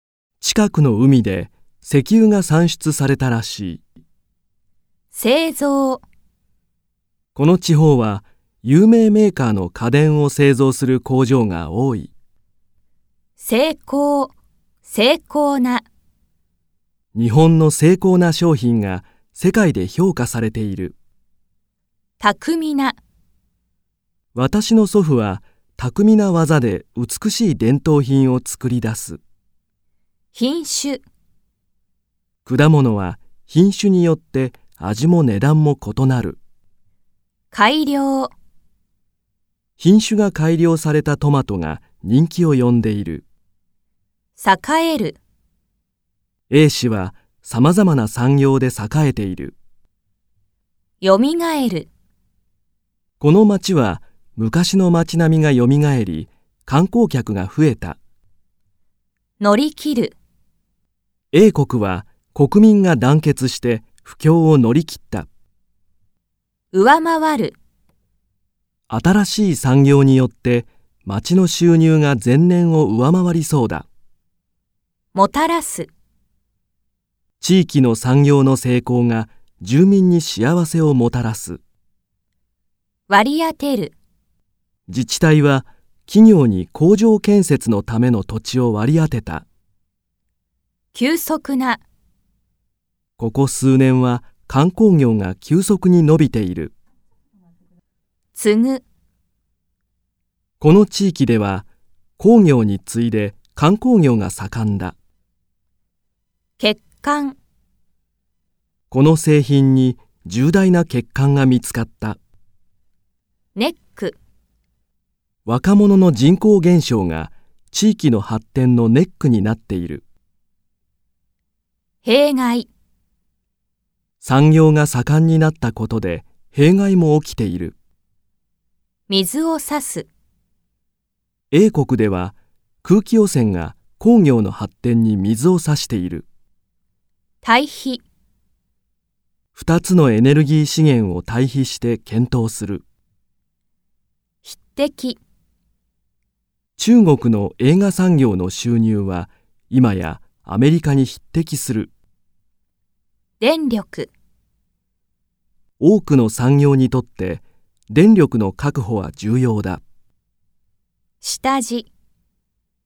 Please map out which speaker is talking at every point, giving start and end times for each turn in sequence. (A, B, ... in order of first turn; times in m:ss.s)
0:00.4-0:03.8 A
0:05.1-0:06.0 B
0:07.4-0:12.1 A
0:13.4-0:14.3 B
0:14.8-0:15.8 B
0:17.1-0:21.0 A
0:22.2-0:23.0 B
0:24.3-0:29.2 A
0:30.3-0:31.0 B
0:32.4-0:36.4 A
0:37.5-0:38.3 B
0:39.8-0:43.2 A
0:44.4-0:45.2 B
0:46.5-0:49.6 A
0:51.0-0:51.9 B
0:53.2-0:58.0 A
0:59.4-1:00.2 B
1:01.3-1:05.3 A
1:06.7-1:07.6 B
1:08.9-1:13.9 A
1:15.1-1:15.9 B
1:17.4-1:21.6 A
1:23.1-1:23.9 B
1:24.9-1:29.4 A
1:30.9-1:31.8 B
1:33.2-1:36.7 A
1:38.4-1:38.8 B
1:40.6-1:41.7 A
1:42.2-1:44.9 A
1:46.6-1:47.4 B
1:48.9-1:52.2 A
1:53.5-1:54.2 B
1:55.4-2:00.0 A
2:02.0-2:02.7 B
2:04.2-2:07.8 A
2:09.1-2:10.1 B
2:11.5-2:16.2 A
2:17.4-2:18.0 B
2:19.5-2:22.8 A
2:24.4-2:25.2 B
2:26.8-2:31.9 A
2:33.4-2:34.1 B
2:35.8-2:39.8 A
2:41.2-2:41.9 B